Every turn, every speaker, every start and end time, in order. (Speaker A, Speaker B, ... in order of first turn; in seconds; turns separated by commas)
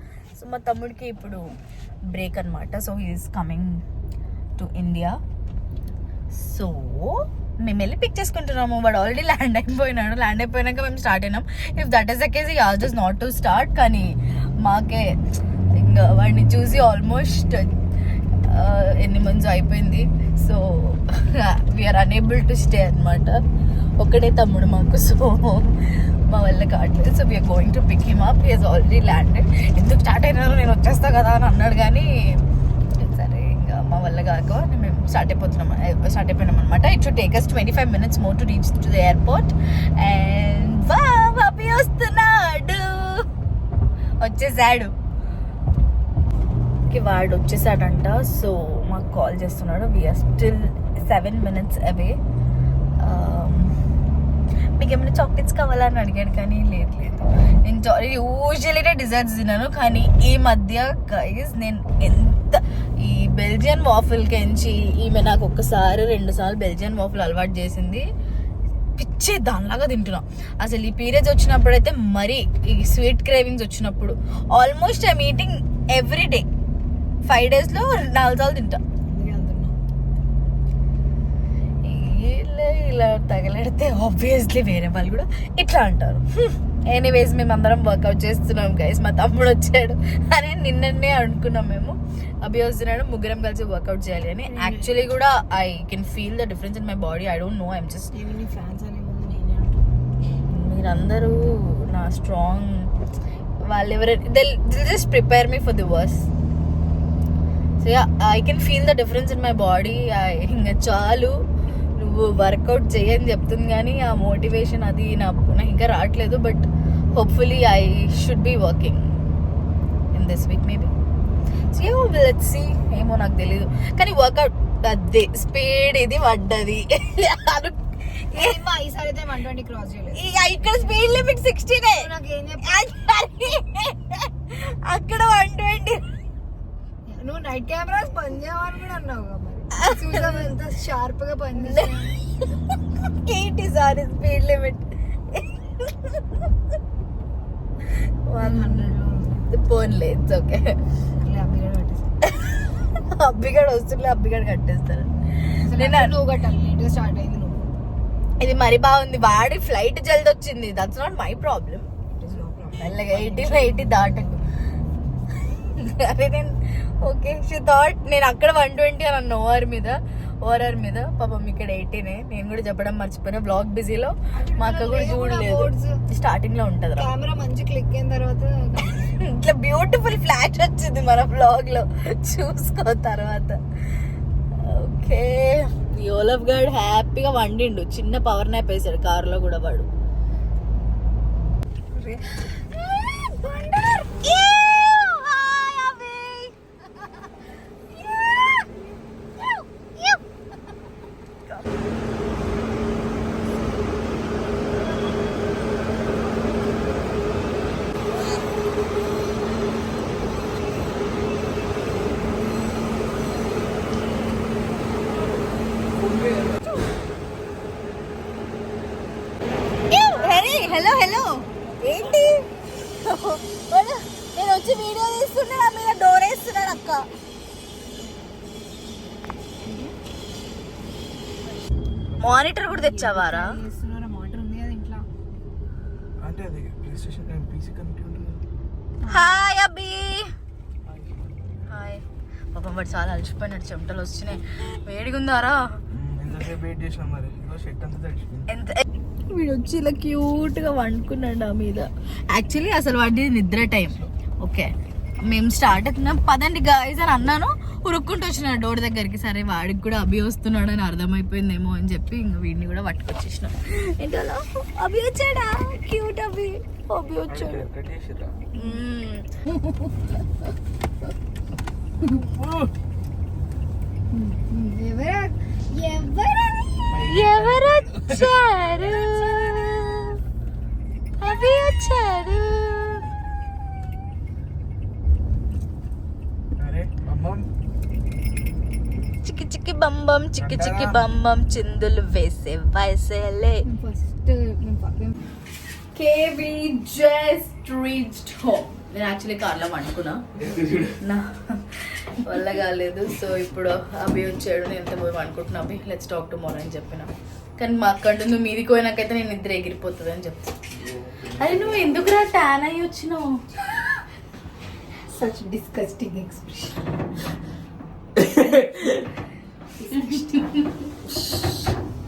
Speaker A: 0.3-1.5, Speaker A: 2.1-3.8, Speaker A: 4.6-5.2, Speaker A: 6.3-15.2, Speaker A: 15.8-17.7, Speaker A: 18.4-23.4, Speaker A: 24.0-32.3, Speaker A: 33.0-43.2, Speaker A: 44.2-44.9, Speaker A: 46.9-52.1, Speaker A: 53.0-53.8, Speaker A: 54.8-68.1, Speaker A: 69.0-76.5, Speaker A: 77.2-78.8, Speaker B: 79.0-79.8, Speaker A: 81.8-98.1, Speaker B: 94.5-94.9, Speaker B: 98.1-99.9, Speaker A: 100.4-102.9, Speaker A: 103.6-106.2, Speaker A: 107.8-111.3, Speaker A: 112.0-119.2, Speaker A: 120.1-120.9, Speaker A: 121.7-128.6, Speaker B: 128.3-130.2, Speaker A: 130.2-132.1, Speaker B: 131.9-132.9, Speaker A: 132.6-136.0, Speaker B: 137.1-142.2, Speaker A: 139.7-140.4, Speaker A: 141.6-142.0, Speaker A: 143.1-146.2, Speaker A: 148.2-148.9, Speaker B: 148.4-149.4, Speaker A: 149.5-150.8, Speaker B: 151.2-152.1, Speaker A: 152.2-156.2, Speaker B: 155.6-157.8, Speaker A: 158.4-161.9, Speaker B: 162.2-164.5, Speaker A: 162.8-164.3, Speaker A: 165.4-177.1, Speaker B: 174.3-176.0, Speaker B: 177.0-179.2, Speaker A: 179.2-183.6, Speaker A: 184.6-189.9, Speaker B: 191.9-192.2, Speaker A: 192.8-196.5, Speaker A: 197.9-198.7, Speaker A: 199.4-200.2, Speaker A: 201.4-201.7, Speaker C: 216.0-216.6, Speaker A: 219.9-227.1, Speaker B: 229.6-229.9, Speaker A: 232.2-233.5, Speaker B: 232.6-235.1, Speaker C: 236.2-238.4, Speaker B: 239.0-239.5, Speaker A: 239.1-240.3, Speaker C: 240.8-241.3, Speaker A: 241.7-245.6, Speaker C: 245.9-248.5, Speaker A: 248.5-267.7, Speaker C: 267.3-268.4, Speaker A: 268.5-269.3, Speaker C: 272.2-272.7, Speaker B: 274.1-277.0, Speaker C: 276.9-278.3, Speaker A: 277.0-280.2, Speaker A: 281.2-283.1, Speaker C: 286.6-287.5, Speaker A: 289.2-293.6, Speaker C: 290.4-291.1, Speaker B: 293.6-295.1, Speaker A: 295.9-300.2, Speaker C: 300.4-300.9, Speaker A: 301.0-310.6, Speaker A: 311.3-313.4, Speaker B: 315.1-316.8, Speaker B: 319.8-320.2, Speaker A: 319.9-320.8